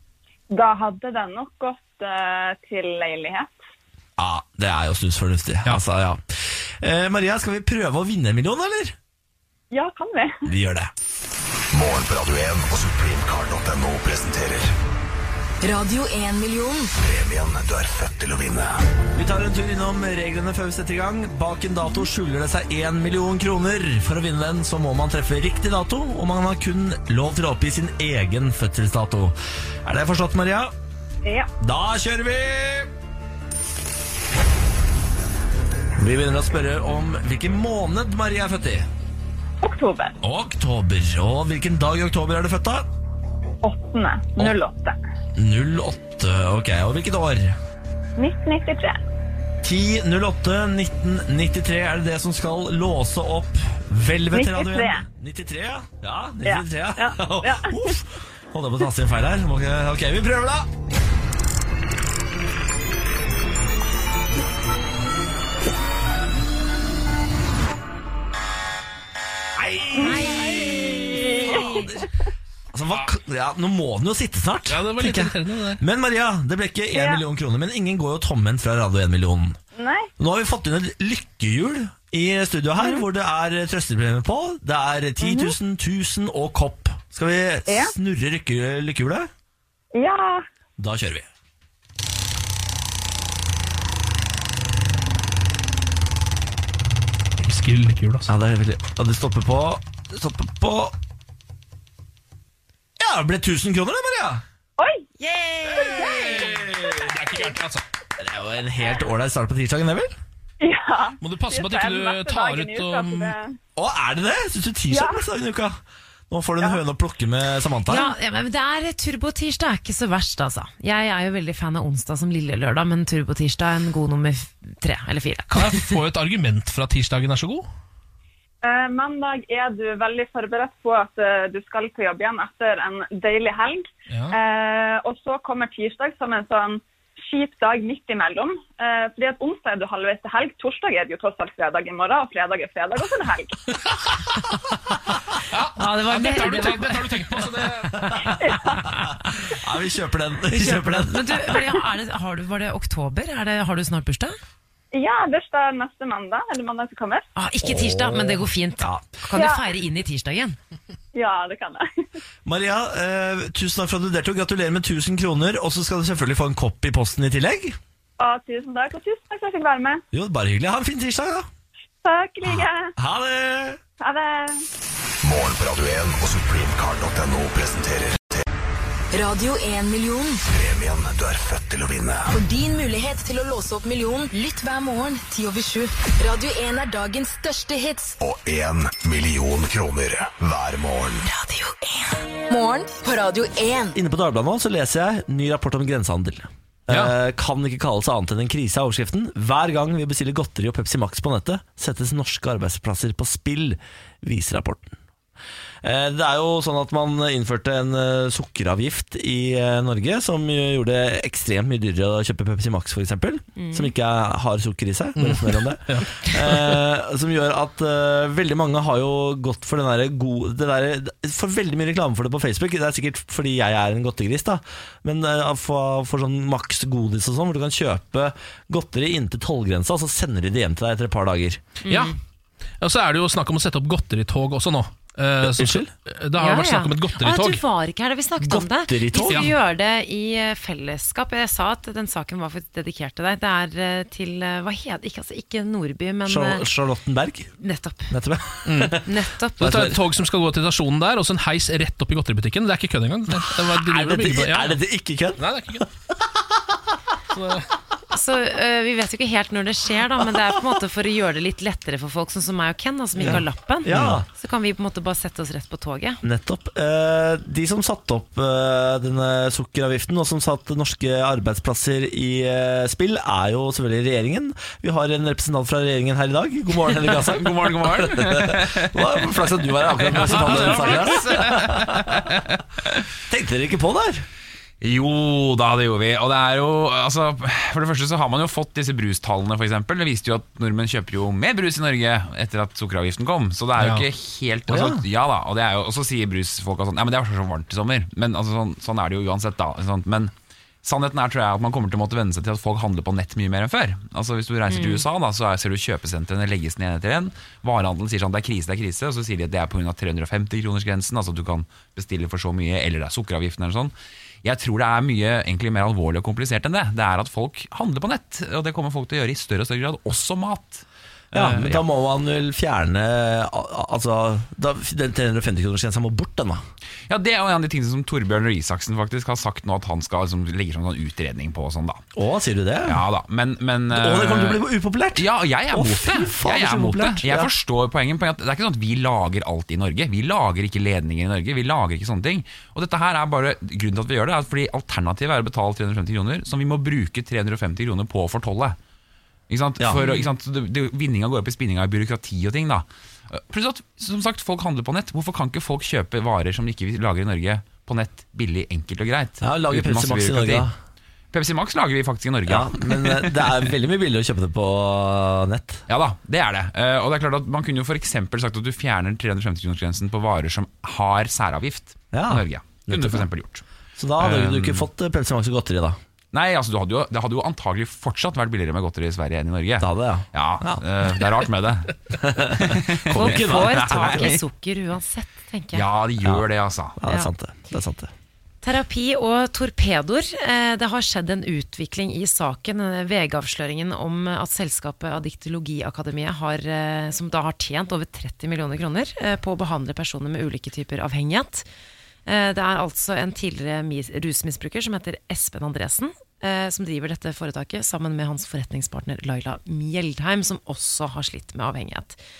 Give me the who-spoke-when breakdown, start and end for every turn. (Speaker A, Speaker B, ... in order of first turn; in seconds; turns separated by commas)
Speaker A: 0.5-3.5, Speaker B: 4.2-8.9, Speaker A: 9.7-10.5, Speaker B: 10.4-10.9, Speaker C: 11.7-14.7, Speaker D: 15.6-16.9, Speaker C: 16.9-18.8, Speaker B: 19.1-30.7, Speaker A: 31.2-31.5, Speaker B: 31.6-32.9, Speaker B: 36.0-38.9, Speaker A: 39.6-40.1, Speaker B: 40.2-42.9, Speaker A: 43.6-45.0, Speaker B: 45.3-47.6, Speaker A: 48.2-49.0, Speaker B: 49.6-60.7, Speaker A: 54.3-55.0, Speaker A: 56.4-58.0, Speaker B: 69.6-72.0, Speaker A: 70.0-72.0, Speaker E: 70.0-71.9, Speaker B: 72.7-79.6, Speaker F: 74.7-75.8, Speaker A: 76.9-77.2, Speaker A: 79.8-80.1, Speaker B: 80.2-89.3, Speaker A: 82.8-83.0, Speaker A: 85.2-85.5, Speaker A: 89.9-90.4, Speaker B: 90.8-91.3, Speaker F: 97.4-98.3, Speaker B: 98.3-100.9, Speaker B: 103.0-104.4, Speaker A: 104.8-105.1, Speaker E: 105.2-106.3, Speaker A: 105.8-106.1, Speaker F: 105.9-107.8, Speaker B: 106.1-106.9, Speaker B: 108.2-110.1, Speaker A: 110.6-113.6, Speaker F: 111.2-113.3, Speaker B: 113.8-115.8, Speaker A: 114.9-115.2, Speaker B: 116.3-118.1, Speaker E: 117.9-126.0, Speaker F: 125.5-127.7, Speaker A: 128.6-143.6, Speaker F: 145.5-148.0, Speaker E: 145.8-147.2, Speaker A: 148.4-148.9, Speaker B: 149.4-151.7, Speaker E: 150.5-154.3, Speaker A: 154.9-157.2, Speaker E: 157.3-160.6, Speaker B: 157.6-159.2, Speaker A: 159.3-159.6, Speaker A: 161.1-162.0, Speaker B: 162.4-167.8, Speaker A: 168.2-170.0, Speaker B: 170.1-171.5, Speaker A: 172.0-172.9, Speaker B: 172.4-173.8, Speaker A: 174.0-174.6, Speaker C: 175.2-178.4, Speaker D: 179.1-180.4, Speaker C: 180.5-182.3, Speaker D: 182.3-188.1, Speaker C: 188.2-191.3, Speaker D: 191.2-193.9, Speaker B: 193.9-204.9, Speaker B: 205.8-231.6, Speaker E: 213.6-213.9, Speaker F: 215.2-216.8, Speaker E: 231.8-232.1, Speaker F: 231.9-232.1, Speaker F: 232.8-237.6, Speaker B: 235.4-235.9, Speaker E: 236.4-246.7, Speaker B: 238.4-239.5, Speaker F: 239.3-239.5, Speaker B: 246.2-247.5, Speaker E: 247.6-248.1, Speaker B: 248.1-249.1, Speaker F: 248.7-249.0, Speaker E: 249.0-249.8, Speaker F: 249.6-254.8, Speaker B: 249.6-250.0, Speaker B: 253.4-255.8, Speaker F: 255.4-255.9, Speaker F: 257.3-257.7, Speaker E: 258.1-266.2, Speaker B: 263.2-264.2, Speaker F: 263.9-264.2, Speaker B: 266.2-282.3, Speaker G: 277.1-279.3, Speaker G: 279.8-282.6, Speaker B: 283.3-284.2, Speaker G: 284.8-321.8, Speaker F: 293.8-294.0, Speaker B: 294.7-295.0, Speaker E: 304.7-305.0, Speaker B: 321.3-326.6, Speaker G: 327.1-332.0, Speaker B: 332.1-333.0, Speaker G: 332.8-334.6, Speaker B: 333.9-337.5, Speaker G: 335.1-348.8, Speaker G: 349.5-360.7, Speaker E: 350.0-350.3, Speaker B: 359.4-360.7, Speaker G: 361.3-363.6, Speaker B: 362.5-365.8, Speaker G: 365.9-373.6, Speaker B: 372.1-373.2, Speaker B: 374.0-376.0, Speaker G: 374.2-374.9, Speaker G: 376.3-382.0, Speaker B: 379.8-380.8, Speaker B: 382.2-384.4, Speaker G: 382.5-384.4, Speaker E: 383.1-385.8, Speaker G: 385.7-387.0, Speaker B: 387.0-388.1, Speaker E: 388.6-401.6, Speaker E: 402.2-412.2